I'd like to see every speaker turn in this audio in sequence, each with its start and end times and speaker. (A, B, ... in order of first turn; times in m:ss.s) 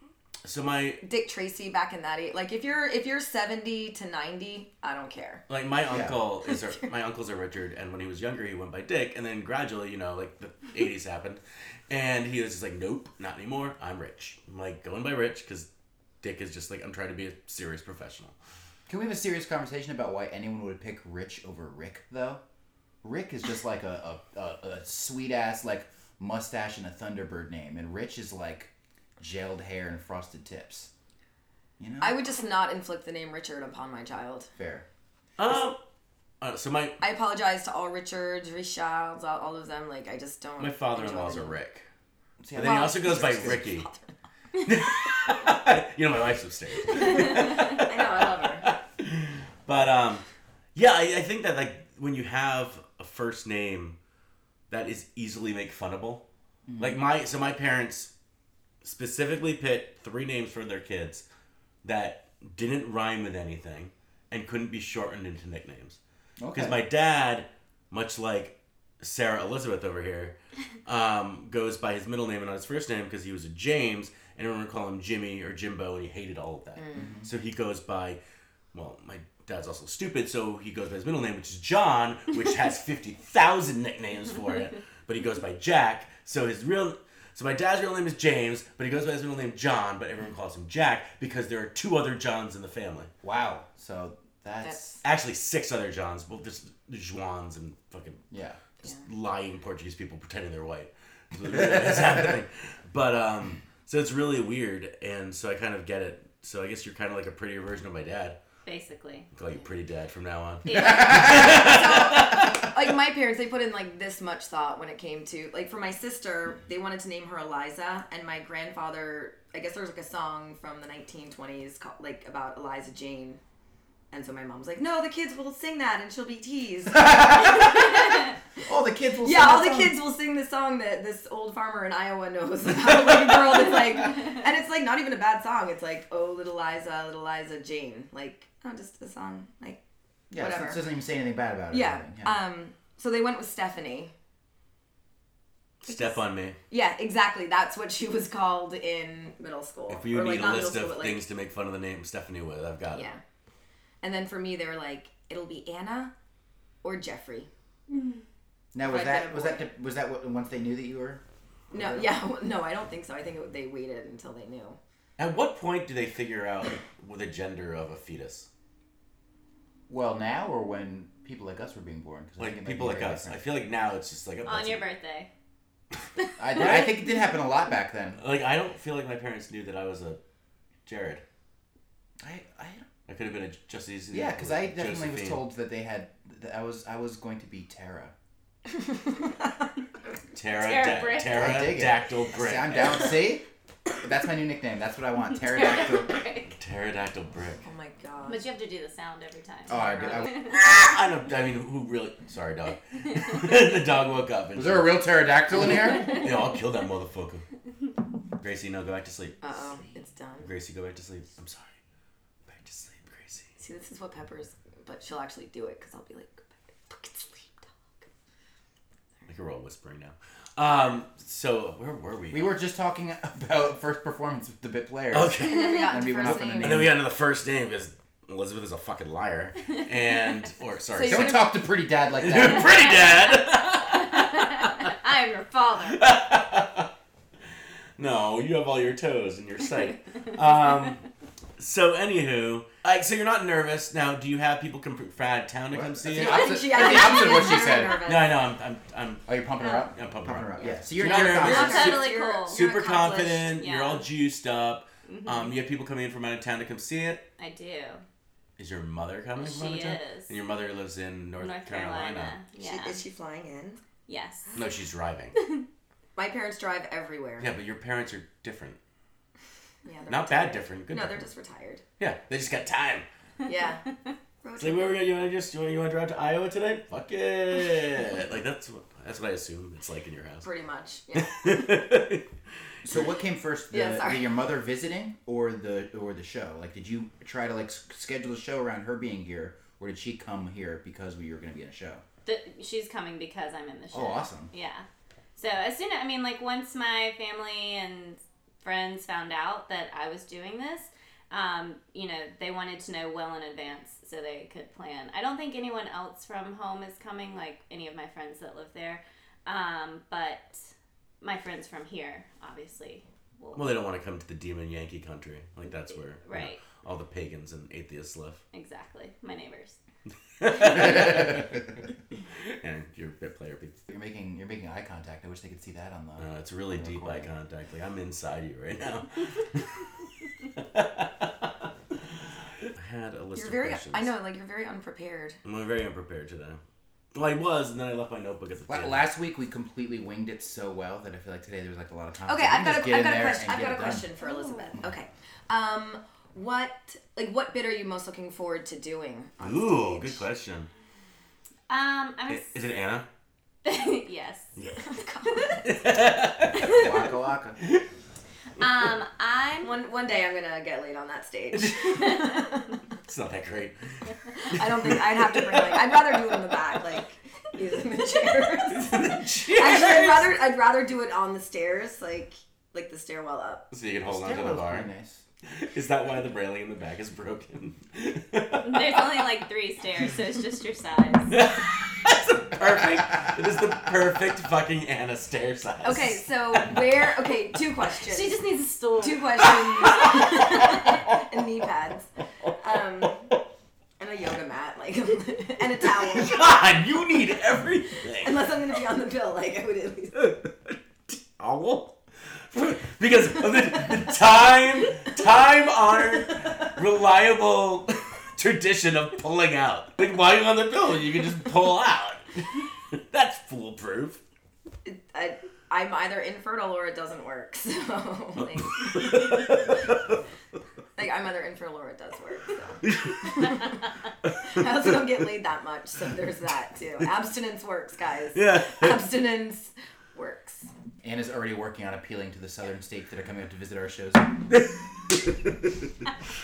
0:00.4-0:01.0 A
0:01.0-0:05.4 B
0:05.5-0:15.7 A
0:05.9-0:06.2 C
0:16.2-0:18.4 A
0:18.9-0:22.4 C
0:23.0-0:30.9 C
0:31.8-0:32.2 C
0:32.0-0:34.5 B
0:34.6-0:34.8 C
0:35.4-0:35.8 A
0:36.4-0:37.0 A
0:37.0-0:41.6 B
0:40.6-0:41.9 A
0:42.4-0:43.6 C
0:42.5-0:43.9 A
0:42.6-0:44.1 B
0:44.6-0:50.2 A
0:46.9-0:48.7 B
0:50.8-0:54.0 A
0:54.7-0:56.2 A
0:56.7-0:57.0 C
0:56.8-0:58.1 A
0:58.8-1:01.2 A
1:01.8-1:06.0 A
1:06.4-1:06.8 C
1:06.5-1:18.2 A
1:16.8-1:17.1 B
1:17.0-1:17.3 C
1:18.7-1:33.1 A
1:33.2-1:35.0 C
1:34.6-1:35.0 B
1:35.0-1:38.2 A
1:38.3-1:38.6 C
1:38.8-1:48.4 A
1:41.5-1:42.3 C
1:48.6-1:49.3 D
1:49.3-1:52.7 A
1:50.7-1:51.5 D
1:51.0-1:51.5 C
1:51.2-2:03.4 B
2:04.1-2:08.4 B
2:06.9-2:08.1 C
2:08.6-2:10.0 C
2:09.2-2:19.8 B
2:20.3-2:22.4 C
2:20.3-2:20.8 B
2:21.7-2:24.1 B
2:25.8-2:26.6 A
2:25.9-2:26.2 B
2:26.7-2:31.2 B
2:29.9-2:33.1 A
2:32.9-2:33.2 B
2:34.0-2:36.1 B
2:36.8-2:37.5 B
2:38.7-2:42.1 C
2:38.9-2:39.7 B
2:41.7-2:44.8 B
2:45.2-2:48.5 A
2:49.9-2:53.4 C
2:52.4-2:54.8 A
2:54.5-2:55.3 D
2:56.4-2:58.2 C
2:56.6-2:56.9 D
2:58.2-3:00.2 A
3:00.9-3:01.2 A
3:02.2-3:02.9 C
3:03.1-3:05.4 A
3:04.1-3:08.1 C
3:08.8-3:09.5 B
3:10.3-3:13.2 A
3:10.6-3:11.6 D
3:11.3-3:13.5 C
3:14.0-3:16.2 C
3:15.4-3:16.5 D
3:16.5-3:17.6 A
3:17.6-3:18.4 B
3:18.2-3:20.6 D
3:19.7-3:20.4 C
3:20.4-3:25.0 A
3:24.6-3:26.3 C
3:25.6-3:27.4 A
3:28.4-3:29.4 A
3:29.4-3:30.5 B
3:30.4-3:31.8 A
3:32.5-3:33.5 A
3:33.6-3:38.1 B
3:39.3-3:42.6 A
3:42.3-3:46.9 C
3:45.1-3:51.4 A
3:45.4-3:46.9 B
3:50.9-3:51.6 B
3:51.0-3:53.1 C
3:52.2-3:54.9 A
3:53.6-3:56.0 D
3:55.8-3:56.9 A
3:58.0-4:01.0 A
4:01.6-4:06.6 A
4:05.7-4:08.1 C
4:06.1-4:08.4 B
4:08.0-4:09.3 A
4:09.3-4:12.0 C
4:09.6-4:09.9 B
4:09.9-4:17.2 A
4:10.6-4:13.6 B
4:11.3-4:12.6 D
4:13.6-4:14.1 D
4:15.1-4:15.6 D
4:17.4-4:18.0 D
4:18.6-4:22.4 A
4:19.4-4:20.3 D
4:21.4-4:23.0 D
4:22.6-4:23.8 B
4:24.1-4:24.6 D
4:24.6-4:25.4 A
4:25.4-4:25.7 D
4:26.2-4:27.5 B
4:27.4-4:28.8 A
4:29.8-4:31.8 B
4:30.1-4:31.2 A
4:32.0-4:33.1 A
4:33.4-4:33.9 B
4:34.4-4:35.0 B
4:34.6-4:40.5 A
4:40.4-4:41.8 B
4:41.1-4:42.3 A
4:42.8-4:52.0 C
4:43.7-4:44.3 B
4:52.3-4:54.8 D
4:53.9-4:54.5 C
4:55.4-5:10.7 D
5:11.2-5:13.7 D
5:13.6-5:18.4 A
5:16.2-5:16.6 D
5:18.5-5:19.8 D
5:20.4-5:21.6 A
5:22.3-5:23.8 A
5:23.9-5:27.3 C
5:26.2-5:29.9 A
5:30.6-5:31.7 A
5:32.6-5:34.1 A
5:33.4-5:35.4 B
5:35.4-5:36.6 A
5:37.1-5:39.1 A
5:38.7-5:44.1 C
5:42.2-5:50.2 B
5:44.2-5:44.8 D
5:49.4-5:50.7 A
5:51.7-5:52.5 D
5:52.3-5:53.1 A
5:53.6-5:54.5 D
5:54.6-5:54.9 A
5:54.8-5:55.8 B
5:55.6-5:57.0 A
5:56.6-5:57.0 D
5:56.7-5:57.6 C
5:58.6-5:59.7 D
5:59.6-6:02.8 B
6:01.5-6:02.3 A
6:03.0-6:06.8 A
6:04.3-6:13.7 B
6:08.6-6:10.3 A
6:13.7-6:14.9 A
6:14.1-6:15.2 C
6:15.4-6:19.3 A
6:18.6-6:21.3 D
6:21.3-6:27.2 A
6:25.8-6:28.4 B
6:28.0-6:30.7 D
6:29.0-6:33.3 B
6:29.4-6:31.2 A
6:32.4-6:33.4 A
6:34.0-6:36.5 B
6:35.8-6:38.4 A
6:38.2-6:40.3 B
6:40.2-6:54.2 A
6:54.8-6:59.7 B
6:58.7-7:00.2 A
7:01.0-7:10.7 B
7:02.8-7:03.7 A
7:04.2-7:04.6 A
7:08.3-7:09.0 A
7:11.0-7:14.3 C
7:14.5-7:15.7 A